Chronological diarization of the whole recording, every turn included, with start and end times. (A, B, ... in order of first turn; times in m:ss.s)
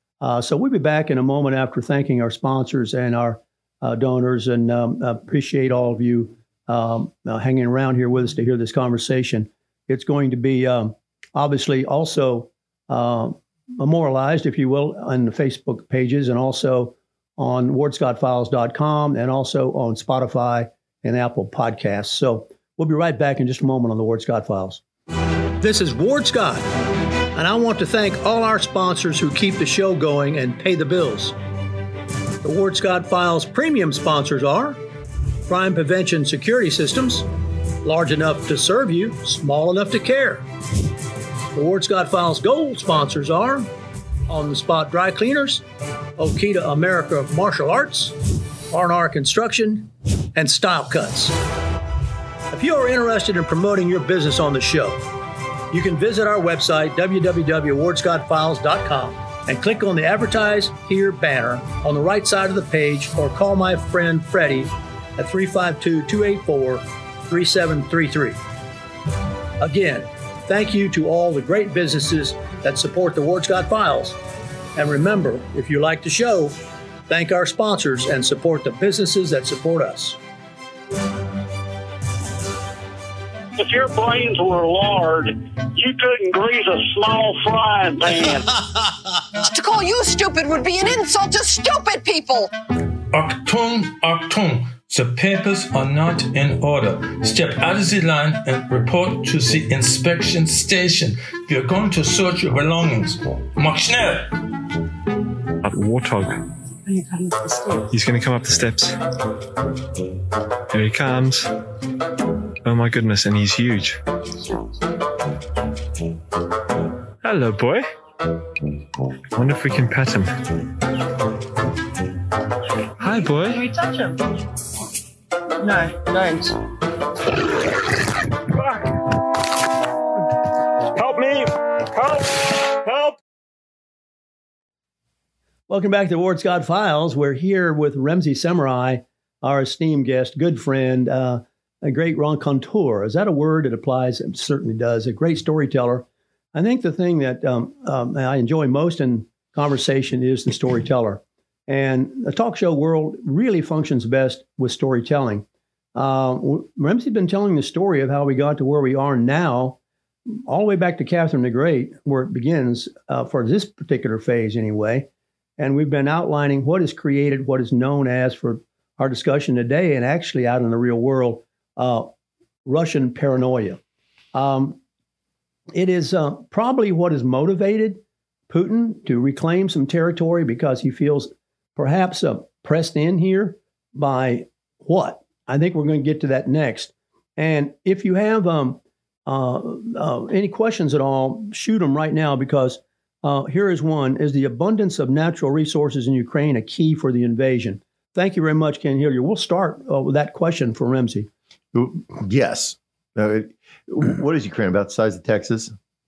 0:00.2-0:24.8 A
0:25.6-0:26.6 A
0:27.4-0:31.4 A
0:32.4-0:34.8 A
0:35.5-0:37.3 A
0:37.8-0:40.4 A
0:41.5-0:43.7 A
0:44.3-0:45.6 A
0:46.2-0:48.2 A
0:48.7-0:51.3 A
0:52.5-0:55.0 A
0:55.7-1:08.4 A
1:09.6-1:14.2 A
1:14.8-1:16.5 A
1:17.1-1:20.2 A
1:23.6-1:28.6 B
1:29.4-1:32.5 C
1:33.1-1:44.3 D
1:45.6-1:46.4 E
1:46.9-1:47.8 F
1:47.9-1:49.0 E
1:50.7-1:51.5 E
1:52.6-1:54.0 E
1:57.2-1:57.9 E
1:59.3-2:00.4 E
2:03.0-2:03.7 E
2:03.2-2:04.2 F
2:05.6-2:06.6 F
2:15.7-2:39.8 A
2:40.5-2:52.1 A
2:52.7-2:53.8 A
2:54.3-2:54.8 A
2:55.7-3:21.3 A
3:21.7-3:25.7 G